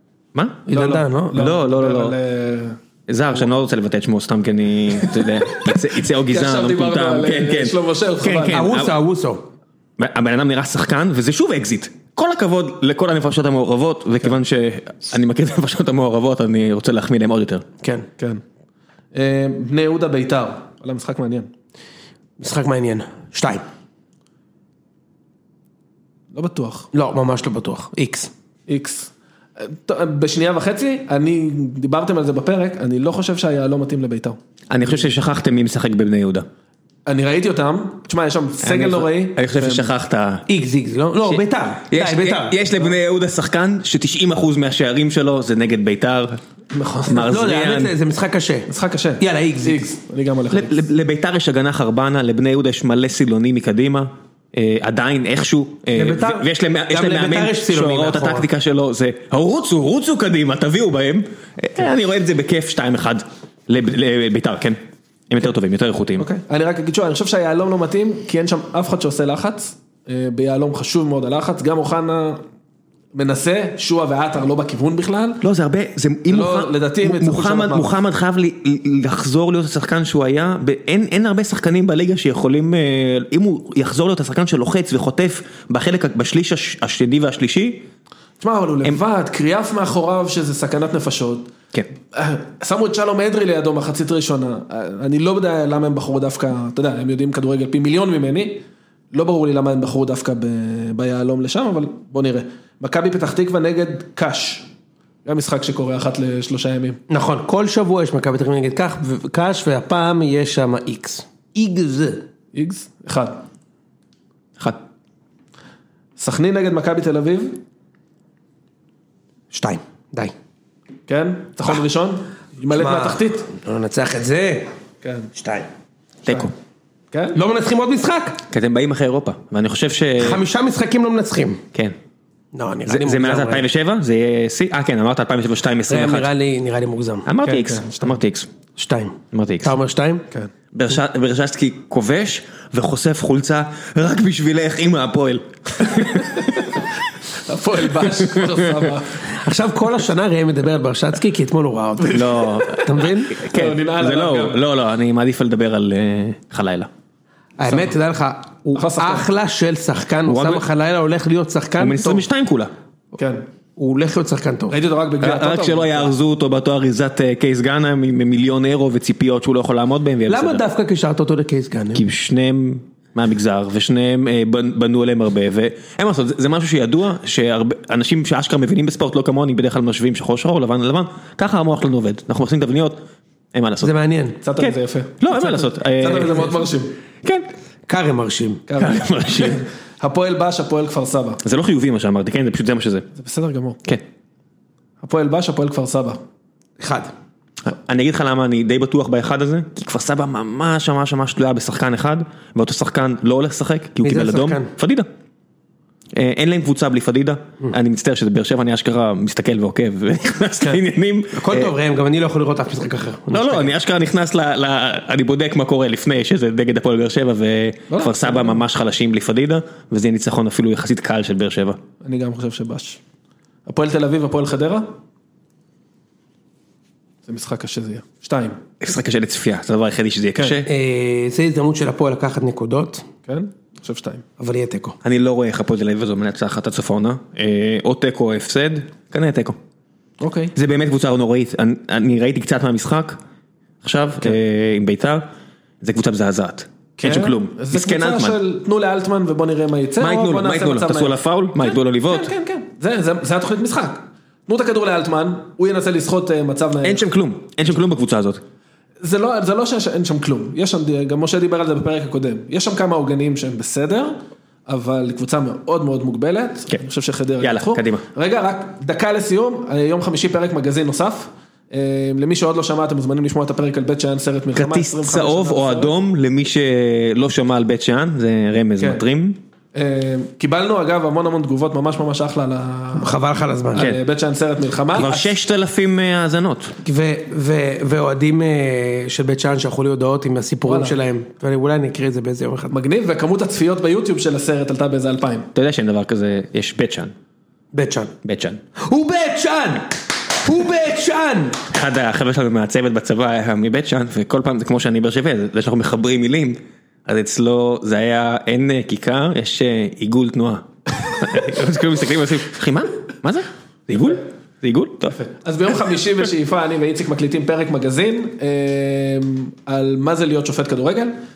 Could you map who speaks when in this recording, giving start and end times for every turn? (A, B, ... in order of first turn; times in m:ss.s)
0:00.3-0:00.7 A
0:00.7-0:01.5 B
0:00.7-0:02.8 C
0:01.3-0:02.2 A
0:03.1-0:09.0 A
0:05.0-0:08.7 C
0:08.5-0:09.4 B
0:10.0-0:17.6 A
0:18.2-0:18.4 C
0:19.1-0:21.5 C
0:22.4-0:23.6 B
0:26.3-0:26.9 C
0:26.9-0:28.3 B
0:28.7-0:34.4 C
0:34.7-0:36.5 A
0:37.0-0:39.9 C
0:38.6-0:40.4 A
0:40.5-0:42.6 B
0:41.9-0:46.4 A
0:46.7-0:47.2 C
0:47.1-0:47.9 A
0:47.1-0:49.9 B
0:48.7-0:50.8 C
0:50.5-1:04.8 A
0:55.9-0:58.4 B
1:05.3-1:06.3 A
1:06.2-1:12.4 C
1:13.1-1:15.4 C
1:15.4-1:27.8 A
1:16.3-1:17.9 C
1:28.4-1:31.5 C
1:32.1-1:44.7 C
1:45.2-1:47.0 C
1:47.1-1:52.2 B
1:52.5-1:53.4 C
1:56.2-1:57.6 C
1:59.5-2:00.3 B
2:01.1-2:03.5 C
2:02.7-2:04.7 B
2:05.0-2:05.3 C
2:05.3-2:05.7 B
2:06.2-2:06.5 C
2:06.2-2:06.5 A
2:07.3-2:08.4 B
2:08.5-2:10.4 A
2:10.2-2:11.6 B
2:12.5-2:13.6 B
2:12.9-2:16.3 A
2:15.9-2:17.3 B
2:17.2-2:18.5 A
2:17.4-2:18.2 C
2:18.8-2:20.2 B
2:19.3-2:19.8 A
2:20.7-2:26.8 A
2:27.4-2:29.2 C
2:28.0-2:28.9 A
2:29.2-2:33.3 B
2:32.1-2:36.9 A
2:33.5-2:34.6 C
2:37.6-2:42.2 B
2:37.7-2:37.9 C
2:38.7-2:39.3 C
2:40.2-2:40.6 A
2:41.8-2:42.7 A
2:43.1-2:43.4 C
2:43.8-2:44.8 B
2:44.7-2:46.1 C
2:45.2-2:50.6 A
2:50.3-2:52.0 B
2:51.9-3:03.0 A
3:03.5-3:03.9 A
3:03.8-3:04.4 B
3:04.4-3:06.9 C
3:04.6-3:06.5 A
3:06.0-3:06.6 B
3:07.9-3:08.6 B
3:08.7-3:11.4 C
3:08.8-3:09.6 A
3:11.4-3:13.1 A
3:13.1-3:13.8 C
3:15.0-3:16.2 C
3:16.8-3:17.1 B
3:17.6-3:25.1 A
3:24.0-3:24.7 B
3:26.1-3:31.7 A
3:31.3-3:33.7 B
3:33.3-3:41.8 A
3:37.9-3:38.6 C
3:42.0-3:43.0 C
3:43.6-3:44.9 C
3:47.2-3:48.6 C
3:48.8-3:50.7 A
3:50.6-3:53.1 B
3:53.2-3:54.2 C
3:54.4-3:55.0 B
3:55.0-3:59.6 A
4:00.2-4:00.5 C
4:00.5-4:03.2 A
4:03.8-4:05.2 A
4:05.8-4:08.4 A
4:07.0-4:17.0 C
4:10.0-4:12.3 A
4:16.8-4:18.4 A
4:19.0-4:35.9 C
4:27.4-4:28.0 A
4:34.5-4:39.4 A
4:38.8-4:39.0 C
4:39.7-4:43.2 C
4:43.0-4:43.8 B
4:43.7-4:45.3 C
4:44.9-4:46.7 A
4:46.8-4:52.7 B
4:50.6-4:51.0 C
4:52.7-4:55.5 C
4:55.5-4:57.1 A
4:57.7-4:58.1 B
4:58.2-4:58.6 A
4:58.8-4:59.9 B
5:00.4-5:01.6 B
5:01.7-5:15.2 A
5:15.1-5:21.2 C